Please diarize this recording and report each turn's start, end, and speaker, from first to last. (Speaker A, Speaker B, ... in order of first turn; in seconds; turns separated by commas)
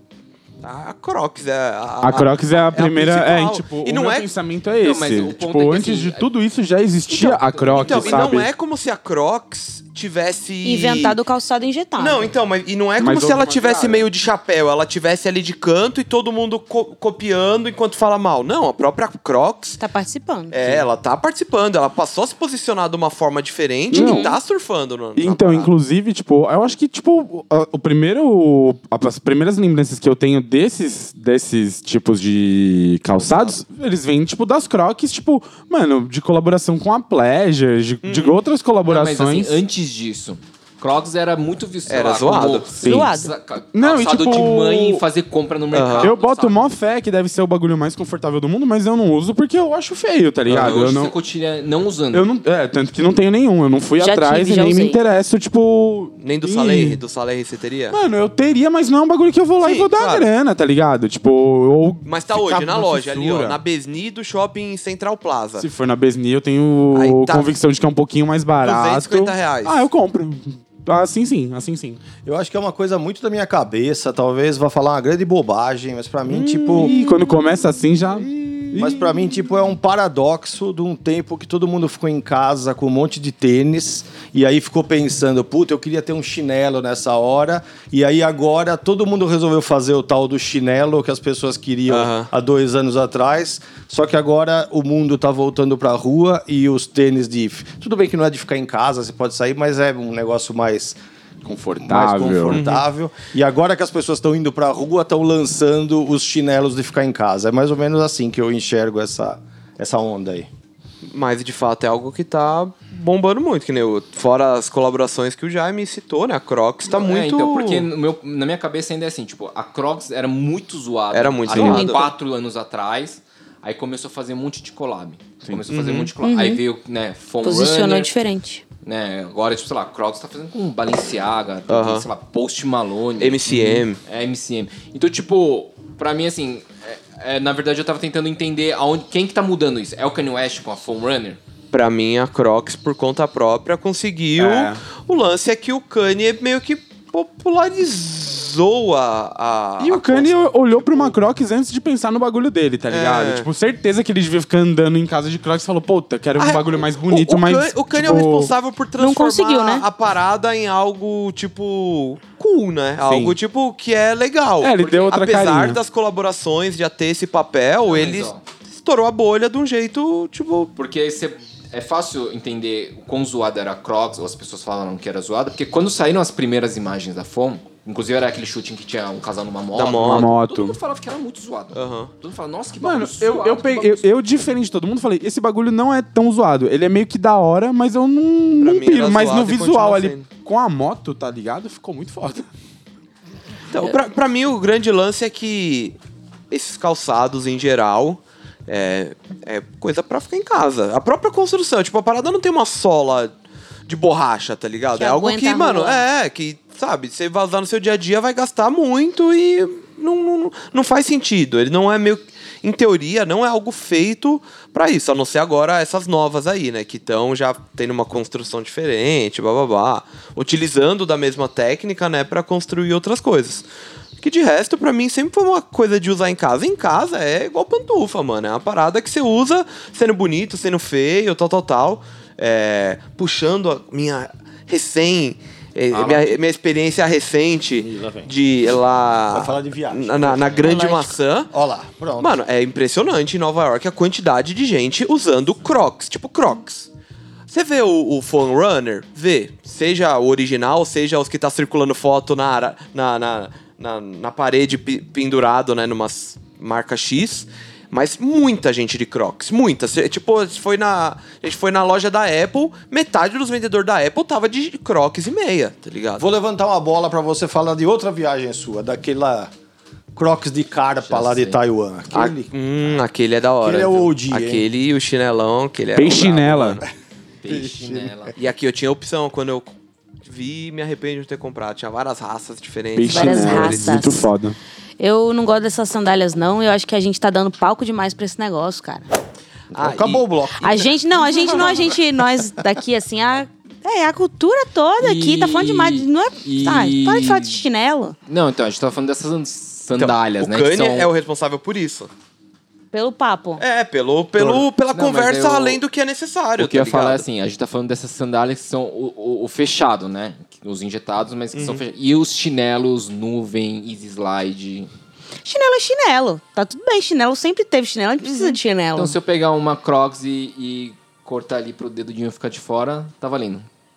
Speaker A: 0.6-4.3, Speaker B: 2.0-8.5, Speaker C: 4.8-6.3, Speaker A: 7.1-11.2, Speaker C: 7.5-8.3, Speaker D: 10.6-12.3, Speaker A: 12.0-19.8, Speaker B: 13.0-14.1, Speaker D: 19.8-20.5, Speaker A: 20.5-25.7, Speaker B: 23.9-24.3, Speaker D: 23.9-24.4, Speaker B: 25.1-39.6, Speaker A: 33.2-33.6, Speaker A: 38.0-38.4, Speaker C: 38.9-46.7, Speaker A: 41.9-42.7, Speaker B: 42.8-43.1, Speaker D: 42.8-43.3, Speaker B: 43.7-45.0, Speaker A: 45.7-46.1, Speaker B: 46.0-51.1, Speaker C: 50.5-52.3, Speaker B: 52.1-57.0, Speaker D: 54.0-55.0, Speaker A: 56.2-58.0, Speaker B: 57.9-63.6, Speaker A: 59.6-60.3, Speaker A: 62.0-65.7, Speaker B: 65.6-72.0, Speaker A: 66.9-67.5, Speaker A: 68.6-69.8, Speaker E: 72.2-77.0, Speaker B: 76.4-79.2, Speaker A: 76.4-77.0, Speaker E: 78.7-101.0, Speaker A: 91.9-92.3, Speaker B: 101.4-102.6, Speaker E: 101.8-110.5, Speaker A: 102.5-102.8, Speaker A: 111.0-117.9, Speaker C: 116.9-128.1, Speaker A: 121.1-122.1, Speaker B: 121.5-121.8, Speaker D: 121.6-122.1, Speaker B: 125.4-125.7, Speaker A: 125.7-126.1, Speaker D: 126.2-126.6, Speaker D: 127.4-128.6, Speaker C: 128.8-141.4, Speaker A: 131.7-132.1, Speaker A: 133.2-134.0, Speaker A: 141.7-151.1, Speaker B: 144.4-144.8, Speaker B: 149.8-158.5, Speaker A: 152.9-153.5, Speaker A: 156.4-170.7, Speaker D: 159.0-159.8, Speaker B: 163.0-163.4, Speaker B: 164.6-165.8, Speaker C: 167.8-168.4, Speaker C: 170.8-184.1, Speaker A: 179.7-180.3, Speaker B: 180.0-180.8, Speaker A: 181.7-182.1, Speaker B: 182.8-192.5, Speaker A: 188.6-190.3, Speaker A: 193.7-195.9, Speaker A: 196.5-203.3, Speaker A: 203.9-223.7, Speaker D: 205.0-206.0, Speaker A: 224.2-241.5, Speaker E: 235.9-236.3, Speaker E: 237.8-238.3, Speaker E: 239.3-240.8, Speaker D: 240.6-241.2, Speaker E: 241.5-242.4, Speaker A: 242.2-246.9, Speaker A: 247.5-266.3, Speaker E: 266.2-269.5, Speaker E: 270.1-272.5, Speaker C: 271.0-271.6, Speaker A: 272.1-276.8, Speaker E: 273.6-274.7, Speaker B: 275.9-276.8, Speaker C: 277.4-278.4, Speaker E: 277.5-278.3, Speaker A: 278.4-283.9, Speaker B: 282.9-284.6, Speaker D: 283.1-284.2, Speaker D: 285.0-289.0, Speaker E: 289.7-291.8, Speaker A: 289.7-290.2, Speaker D: 290.6-298.1, Speaker C: 295.0-297.6, Speaker C: 298.3-301.1, Speaker A: 299.9-302.1, Speaker D: 302.9-303.6, Speaker A: 303.6-307.2, Speaker C: 304.9-305.8, Speaker C: 306.6-314.9, Speaker A: 311.5-311.8, Speaker D: 315.4-319.1, Speaker A: 318.2-318.6, Speaker C: 318.9-323.7